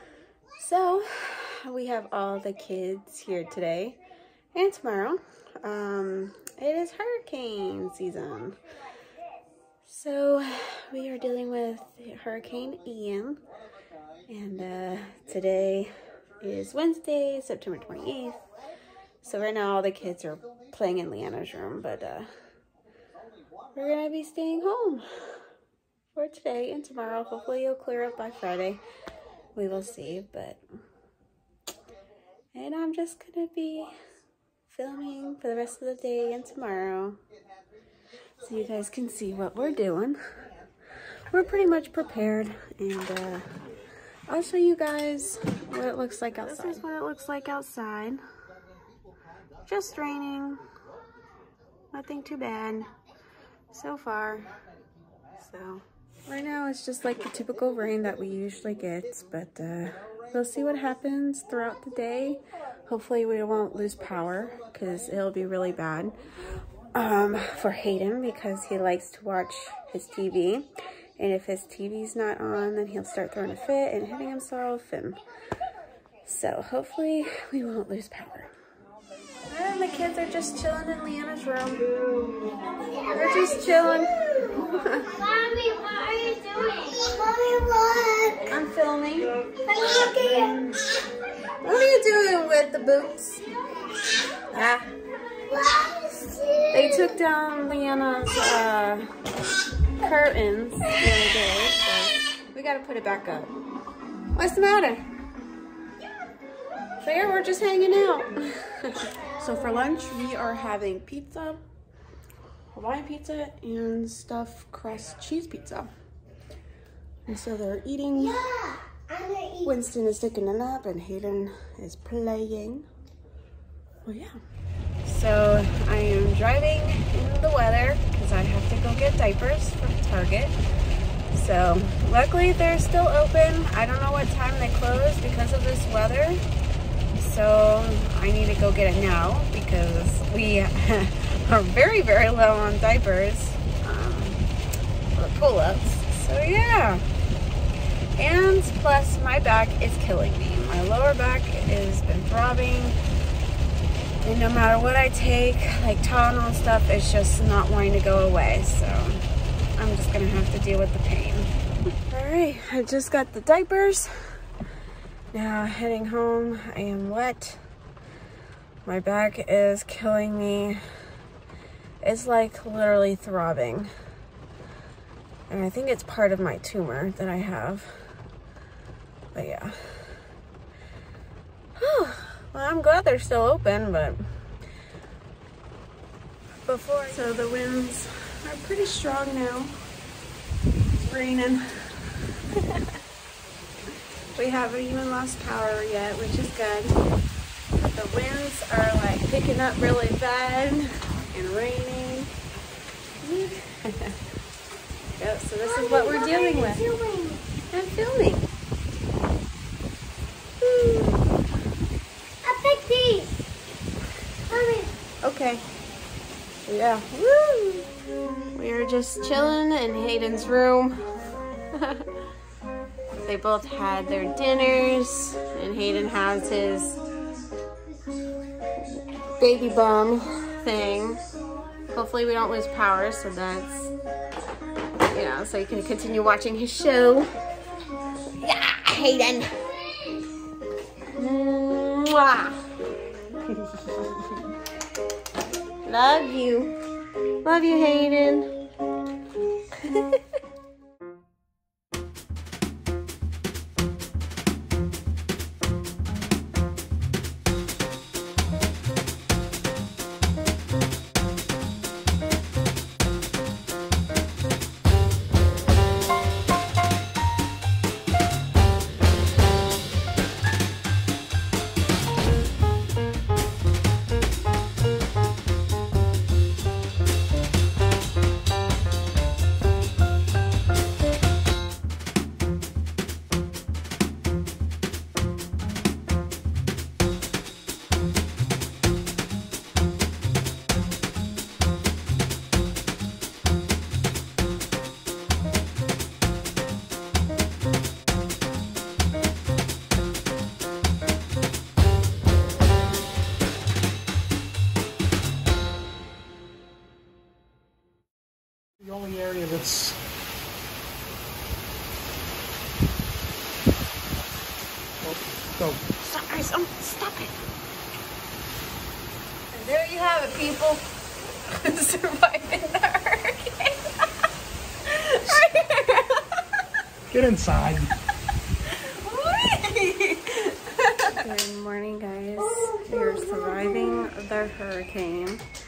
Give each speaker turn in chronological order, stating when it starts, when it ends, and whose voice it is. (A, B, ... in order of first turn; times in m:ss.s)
0:00.6-0:04.0 A
0:04.5-0:08.6 A
0:09.8-0:13.4 A
0:14.3-0:18.4 A
0:19.2-0:22.3 A
0:23.8-0:25.1 A
0:26.1-0:28.8 A
0:29.6-0:30.6 A
0:32.5-0:33.9 A
0:34.7-0:37.2 A
0:38.4-0:40.2 A
0:41.3-0:43.5 A
0:44.3-0:48.2 A
0:49.7-0:50.6 A
0:51.9-0:52.9 A
0:53.7-0:54.5 A
0:55.4-1:06.2 A
1:06.9-1:15.2 A
1:16.2-1:18.5 A
1:19.5-1:25.1 A
1:22.8-1:23.8 B
1:24.4-1:28.5 B
1:28.5-1:29.4 A
1:29.6-1:30.6 B
1:31.6-1:33.4 A
1:34.4-1:34.9 A
1:35.4-1:37.1 B
1:36.7-1:39.1 A
1:40.0-1:43.5 A
1:44.3-1:45.0 A
1:47.0-1:51.6 A
1:52.7-1:55.9 A
1:57.3-1:58.5 A
1:58.2-1:59.7 B
1:59.6-2:02.9 A
2:04.0-2:04.4 A
2:05.0-2:10.6 A
2:11.3-2:16.4 A
2:17.2-2:24.5 A
2:25.2-2:27.0 A
2:28.2-2:33.0 A
2:34.2-2:41.5 A
2:42.1-2:44.1 A
2:45.3-2:47.6 A
2:48.9-2:50.8 A
2:52.0-2:53.9 A
2:55.5-2:58.0 A
2:59.3-3:00.2 A
3:01.8-3:04.3 A
3:06.7-3:09.8 A
3:10.9-3:13.0 A
3:14.3-3:17.0 A
3:17.8-3:22.3 A
3:23.2-3:24.2 A
3:25.2-3:26.9 A
3:25.7-3:27.5 B
3:27.7-3:28.5 A
3:30.6-3:31.3 A
3:32.4-3:33.5 B
3:34.5-3:34.9 B
3:35.2-3:35.7 A
3:36.7-3:37.9 A
3:38.5-3:41.0 A
3:41.7-3:42.2 A
3:43.2-3:47.0 A
3:48.8-3:51.3 A
3:51.9-3:53.9 A
3:55.0-3:57.3 A
3:58.4-3:59.5 A
4:01.1-4:02.7 A
4:03.5-4:04.4 A
4:05.8-4:06.8 A
4:07.4-4:08.5 A
4:09.8-4:10.2 A
5:08.8-5:10.0 C
5:15.0-5:16.0 C
5:16.0-5:17.4 A
5:19.5-5:20.8 A
5:21.5-5:23.9 A
5:24.8-5:26.4 A
5:27.1-5:27.9 C
5:28.8-5:35.4 A